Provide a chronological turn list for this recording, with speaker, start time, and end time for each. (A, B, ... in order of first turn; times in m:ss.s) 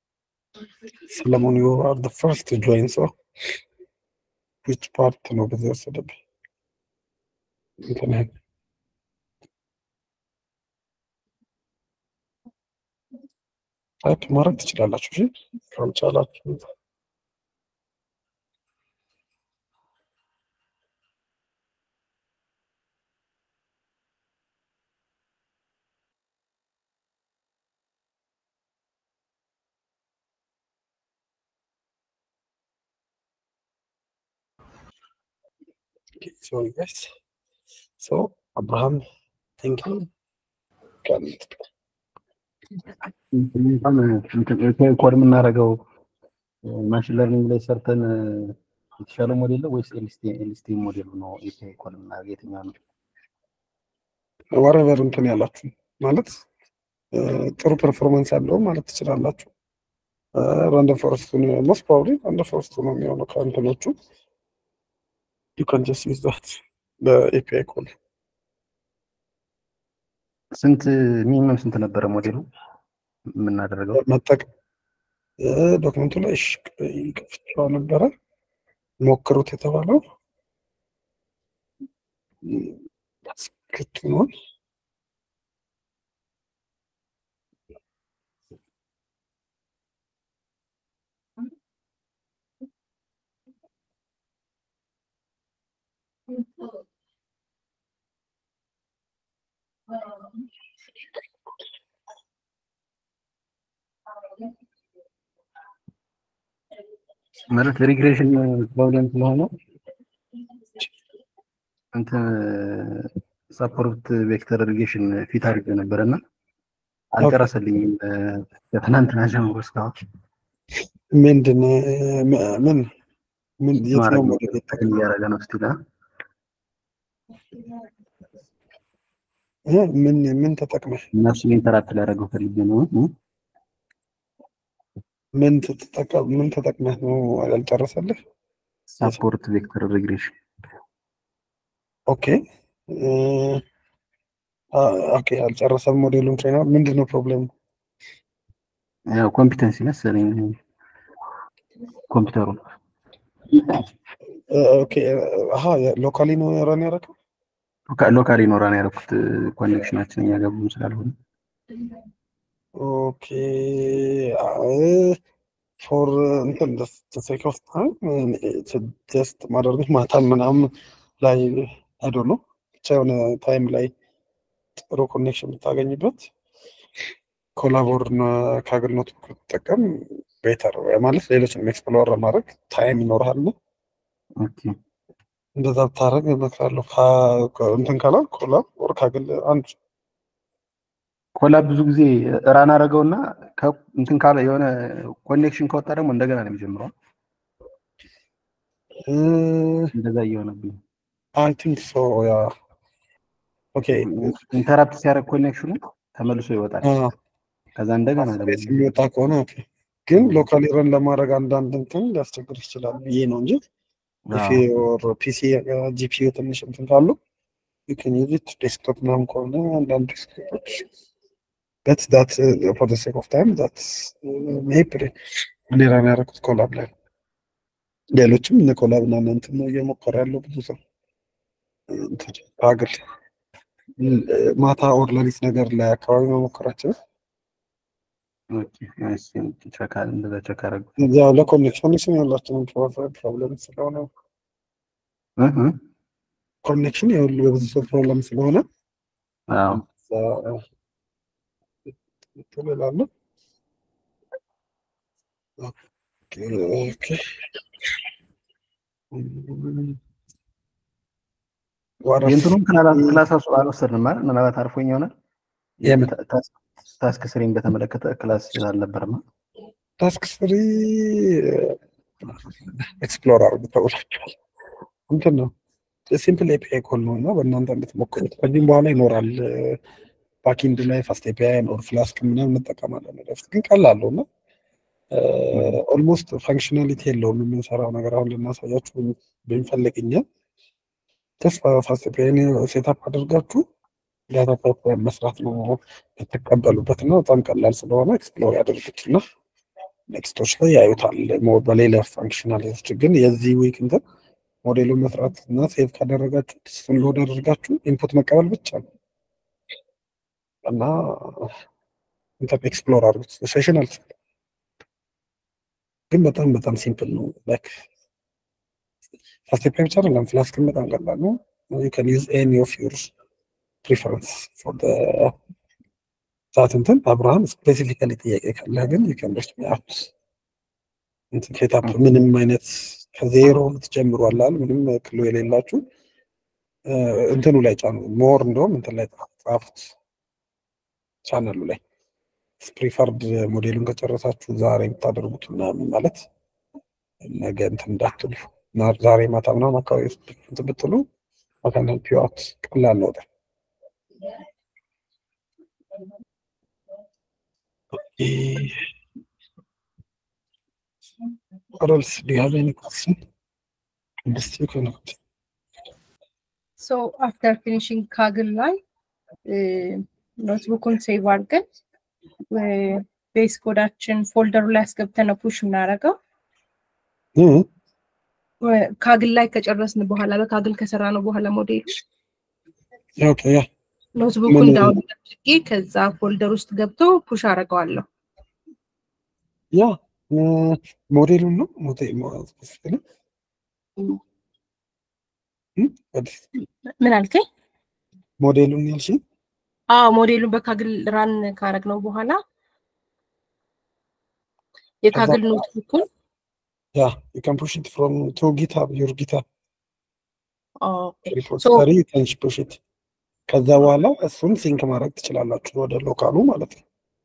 0:01.1-0:03.2 A
0:04.6-0:06.2 A
0:07.8-0:08.3 A
0:14.0-0:16.7 A
0:36.2-0:37.1 A
0:38.0-0:39.0 A
0:39.6-0:40.1 A
0:41.0-0:41.5 A
0:43.3-0:45.8 B
0:46.6-0:52.8 B
0:54.5-0:56.4 A
0:57.1-0:59.5 A
1:00.4-1:03.9 A
1:05.6-1:07.9 A
1:10.6-1:12.5 B
1:13.3-1:14.0 B
1:13.9-1:14.5 A
1:15.4-1:18.1 A
1:19.0-1:20.0 A
1:22.4-1:24.3 A
1:47.5-1:49.5 B
1:51.9-1:56.2 B
1:57.1-1:59.9 B
1:57.2-1:57.5 A
2:01.1-2:02.9 A
2:03.6-2:04.8 A
2:03.9-2:05.8 B
2:09.7-2:11.1 A
2:11.1-2:13.1 B
2:15.4-2:18.2 A
2:18.9-2:20.3 B
2:22.1-2:23.6 A
2:24.7-2:27.5 A
2:29.1-2:30.6 B
2:32.1-2:32.6 B
2:33.5-2:33.8 B
2:34.5-2:37.1 A
2:37.9-2:41.1 B
2:42.8-2:45.2 A
2:45.8-2:53.9 A
2:54.9-2:56.3 A
2:57.6-3:03.5 A
3:04.4-3:04.8 B
3:05.6-3:09.8 A
3:11.4-3:16.9 B
3:19.1-3:19.9 A
3:19.9-3:20.8 B
3:21.4-3:22.5 A
3:23.8-3:24.4 A
3:24.0-3:27.0 B
3:26.8-3:27.1 A
3:27.8-3:28.9 B
3:28.4-3:33.6 A
3:30.2-3:30.5 B
3:34.3-3:34.6 B
3:34.3-3:37.2 A
3:37.9-3:40.9 A
3:41.9-3:45.1 A
3:45.7-3:46.9 A
3:48.2-3:50.8 A
3:51.9-3:53.0 A
3:54.0-3:57.0 A
3:58.5-4:00.9 B
4:01.0-4:04.1 A
4:05.4-4:05.8 B
4:06.6-4:08.6 A
4:09.5-4:09.8 B
4:09.7-4:10.6 A
4:12.4-4:13.1 A
4:16.3-4:17.4 A
4:19.1-4:20.0 A
4:22.0-4:23.2 A
4:22.3-4:25.1 B
4:25.8-4:26.1 A
4:25.8-4:29.2 B
4:30.0-4:31.8 A
4:32.8-4:34.4 A
4:35.1-4:35.5 A
4:36.1-4:39.8 A
4:40.4-4:44.3 A
4:45.1-4:50.2 A
4:51.4-4:53.6 A
4:54.3-4:59.2 A
5:00.1-5:04.0 A
5:04.6-5:08.9 A
5:10.6-5:11.5 A
5:12.4-5:14.1 A
5:16.1-5:17.8 A
5:19.5-5:23.1 A
5:23.8-5:25.4 A
5:26.5-5:30.1 A
5:31.3-5:35.8 A
5:36.9-5:40.0 A
5:41.2-5:41.8 A
5:42.6-5:46.3 A
5:47.2-5:51.1 A
5:51.6-5:53.3 A
5:58.0-5:58.8 A
6:01.8-6:03.2 A
6:04.3-6:05.2 A
6:06.8-6:08.8 C
6:09.5-6:11.6 C
6:12.5-6:16.2 C
6:17.4-6:17.7 A
6:18.6-6:22.0 C
6:23.2-6:23.7 A
6:24.2-6:28.0 C
6:24.5-6:25.0 A
6:29.7-6:33.0 A
6:35.8-6:36.5 A
6:37.0-6:37.4 C
6:38.4-6:39.2 A
6:39.9-6:42.4 C
6:45.0-6:46.1 C
6:45.1-6:45.6 A
6:47.0-6:49.4 A
6:50.8-6:51.9 C
6:51.3-6:52.8 A
6:53.5-6:56.8 A